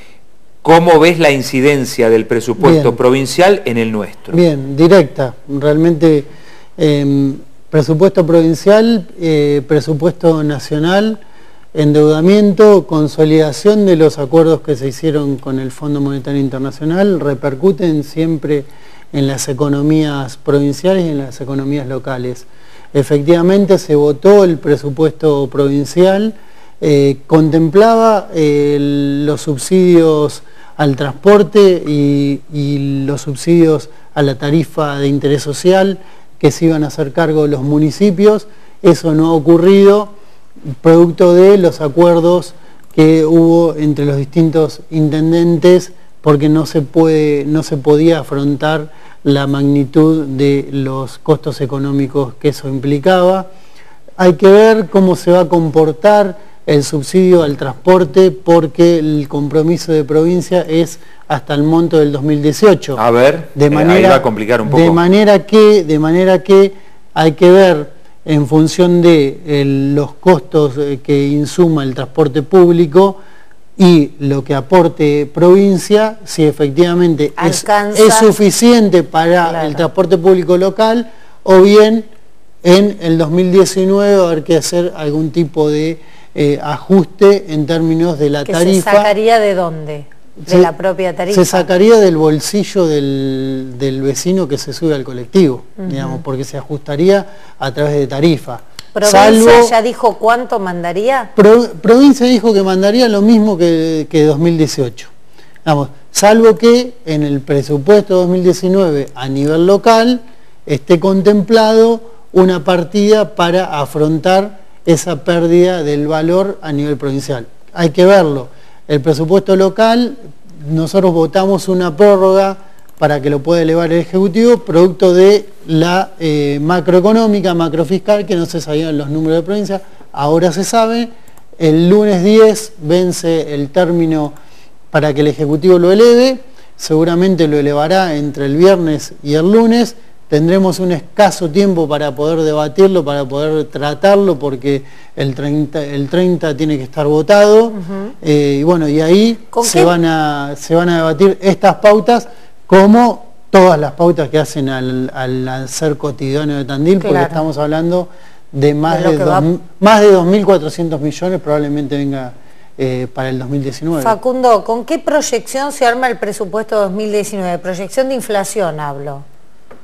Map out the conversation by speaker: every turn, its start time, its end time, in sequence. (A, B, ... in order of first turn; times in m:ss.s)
0:00.6-0:04.4 A
0:02.6-0:03.0 B
0:04.3-0:11.2 B
0:11.8-0:40.1 B
0:40.8-0:53.5 B
0:54.2-1:03.0 B
1:03.0-1:05.0 A
1:03.6-1:13.2 B
1:13.8-1:22.1 B
1:17.4-1:18.3 C
1:19.5-1:19.8 C
1:22.6-1:29.1 B
1:28.4-1:31.7 C
1:30.4-1:30.7 B
1:31.3-1:39.7 B
1:35.8-1:36.2 C
1:39.0-1:41.3 C
1:41.4-1:45.1 B
1:45.6-2:14.4 B
2:14.9-2:44.2 B
2:29.5-2:30.0 C
2:37.0-2:37.5 C
2:38.9-2:39.5 C
2:44.0-2:49.2 C